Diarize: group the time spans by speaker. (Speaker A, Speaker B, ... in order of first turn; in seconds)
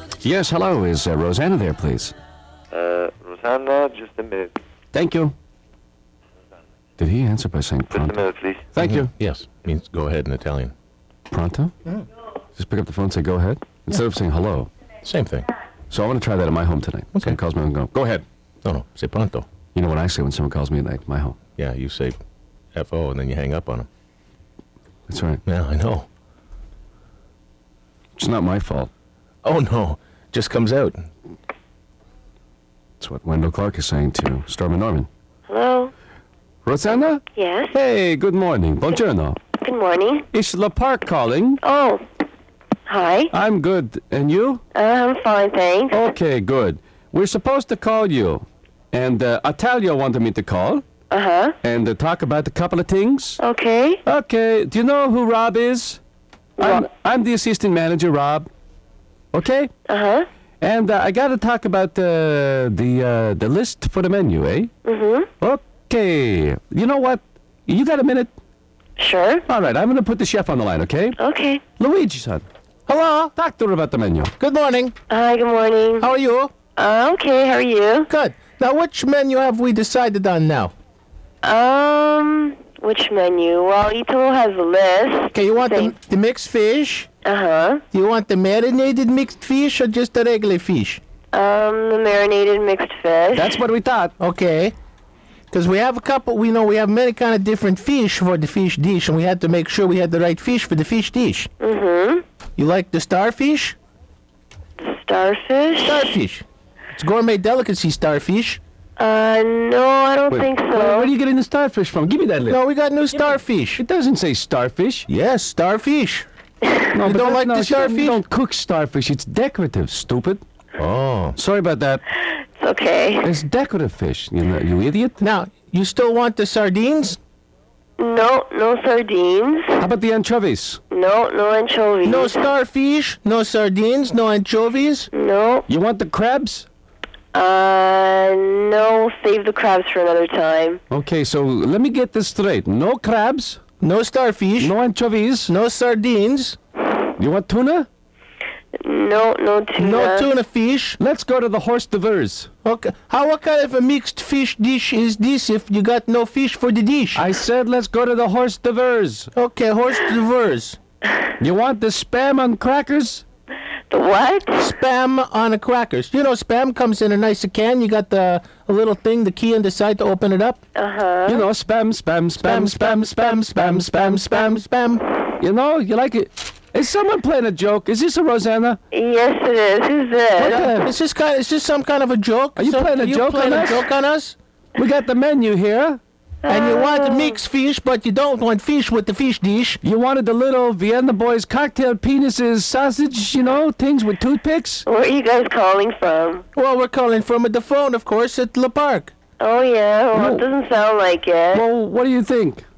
Speaker A: 0.2-2.1, 4.9-5.3, 7.0-9.1, 11.3-11.7, 12.6-14.7, 15.9-18.2, 19.7-21.4, 25.1-25.4, 28.2-28.9, 33.0-35.1, 36.6-37.2, 37.7-39.4, 40.3-41.6, 43.3-44.6, 45.9-50.8, 51.6-53.4, 54.0-56.0, 56.6-58.5, 59.3-59.7, 60.6-64.7, 65.4-68.3, 69.5-71.2, 71.8-72.4, 73.3-74.3, 93.3-94.1, 110.3-112.6, 113.8-115.1, 116.9-120.4, 121.4-122.0, 123.2-125.2, 129.8-130.8, 135.7-136.7, 140.9-143.6, 144.6-145.5, 147.2-147.9, 151.0-152.5, 157.1-159.3, 161.4-163.2, 171.3-174.6, 175.4-178.8, 180.4-180.9, 182.6-183.9, 184.8-186.0, 189.8-194.8, 200.1-200.5, 201.5-202.6
Speaker B: 2.7-4.6, 7.9-8.7
Speaker C: 8.8-10.7, 15.0-15.4, 18.6-19.4, 21.6-22.2, 22.7-23.9, 25.4-26.1, 29.4-31.0, 72.9-73.3, 74.4-74.9, 76.0-76.5, 78.1-80.7, 85.3-87.1, 87.9-91.0, 94.2-94.7, 95.5-101.5, 102.6-103.8, 105.8-108.6, 112.5-113.8, 115.1-116.2, 117.0-118.2, 120.8-121.4, 125.2-127.2, 132.0-135.1, 143.8-144.7, 145.5-146.6, 149.8-151.0, 152.6-157.2, 159.3-160.8, 164.6-170.6, 172.4-175.0, 180.4-184.3, 186.5-189.8, 196.6-199.1
Speaker D: 35.5-35.9, 37.3-37.7, 39.5-40.3, 41.6-42.0, 42.9-43.3, 44.7-46.0, 51.1-51.5, 53.4-54.0, 56.6-56.9, 59.9-60.2, 64.8-65.3, 69.0-69.4, 71.2-71.6, 75.1-76.1, 76.8-78.1, 81.4-85.9, 87.2-87.8, 91.3-93.5, 101.6-102.2, 104.8-106.1, 109.0-111.1, 122.6-123.4, 128.0-129.8, 130.9-132.4, 135.1-135.7, 137.3-140.8, 148.8-150.3, 163.9-164.7, 170.8-171.4, 178.9-180.7, 186.4-187.4, 194.8-196.4, 199.4-201.7